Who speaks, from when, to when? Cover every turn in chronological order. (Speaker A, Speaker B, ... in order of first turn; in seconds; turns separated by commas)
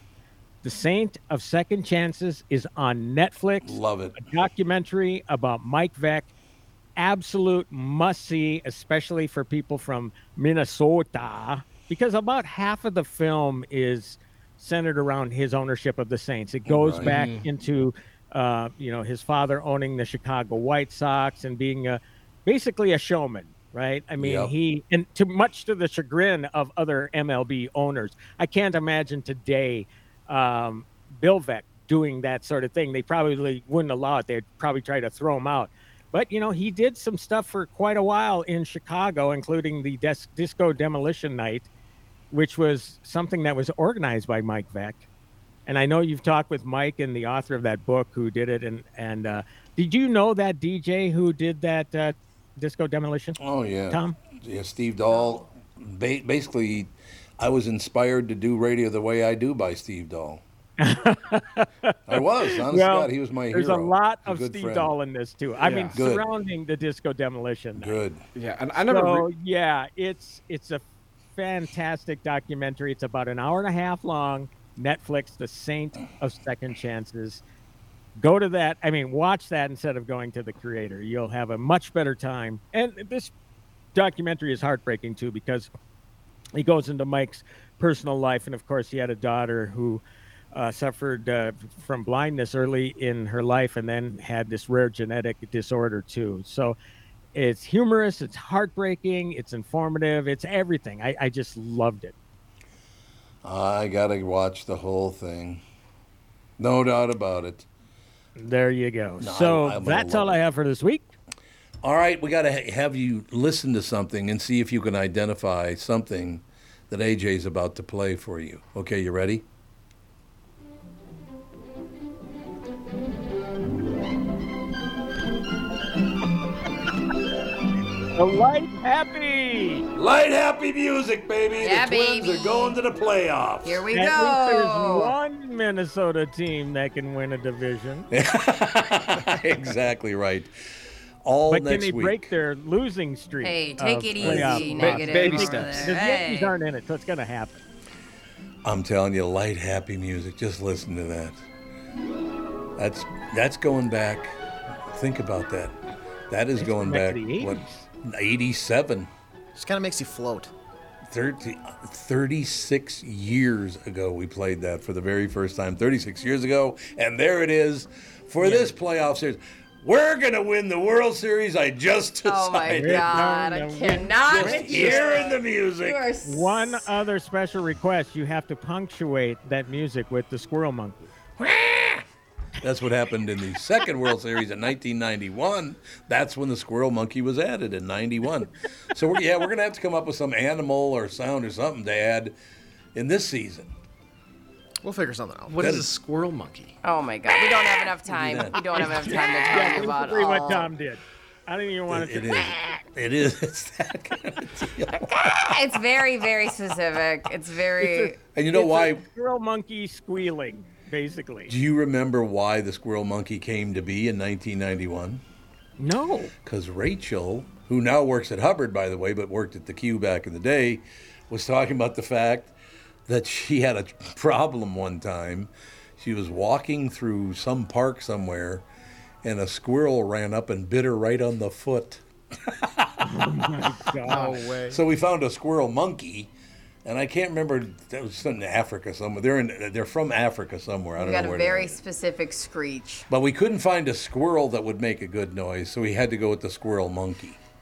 Speaker A: 0.6-6.3, Speaker B: 3.6-4.3, Speaker A: 7.0-41.7, Speaker B: 16.7-17.2, Speaker C: 17.0-17.5, Speaker B: 24.2-24.6, Speaker A: 42.3-45.0, Speaker A: 45.7-53.4, Speaker B: 53.4-60.4, Speaker A: 53.9-54.2, Speaker A: 60.8-68.0, Speaker B: 62.1-65.0, Speaker C: 65.6-66.0, Speaker B: 65.9-66.3, Speaker B: 67.8-68.2, Speaker C: 68.3-69.3, Speaker A: 68.9-70.8, Speaker A: 71.3-77.4, Speaker A: 78.2-83.3, Speaker A: 83.9-85.7, Speaker A: 86.5-96.8, Speaker A: 97.3-102.2, Speaker B: 103.4-105.6, Speaker B: 106.6-107.7, Speaker A: 108.4-111.1, Speaker B: 109.2-110.4, Speaker B: 111.8-119.5, Speaker A: 128.2-129.9, Speaker B: 129.9-133.8, Speaker D: 131.6-132.8, Speaker D: 133.6-135.1, Speaker A: 133.9-138.1, Speaker B: 138.1-140.5, Speaker B: 141.2-142.3, Speaker A: 141.5-147.6, Speaker D: 143.4-146.5, Speaker C: 144.2-146.0, Speaker B: 148.6-151.4, Speaker B: 152.8-155.8, Speaker B: 156.3-159.1, Speaker A: 156.6-157.8, Speaker E: 159.6-160.5, Speaker B: 161.1-173.4, Speaker A: 168.4-168.7, Speaker D: 172.2-176.9, Speaker A: 172.7-175.3, Speaker B: 174.3-176.1, Speaker A: 176.2-181.1, Speaker B: 181.4-182.1, Speaker B: 182.6-192.4, Speaker B: 192.9-193.7, Speaker E: 194.8-195.9, Speaker C: 195.5-196.7, Speaker B: 195.6-195.9, Speaker D: 196.8-200.7, Speaker B: 198.1-199.7, Speaker A: 198.8-202.8, Speaker B: 201.9-205.6, Speaker D: 205.0-208.2, Speaker A: 207.8-211.5, Speaker B: 208.3-209.1, Speaker B: 211.5-215.2, Speaker A: 215.8-216.3, Speaker B: 216.4-222.5, Speaker B: 223.1-228.7, Speaker B: 229.2-232.9, Speaker A: 233.0-234.5, Speaker C: 234.1-234.8, Speaker B: 234.1-236.3, Speaker B: 236.8-241.8, Speaker D: 241.0-243.1, Speaker B: 243.1-247.4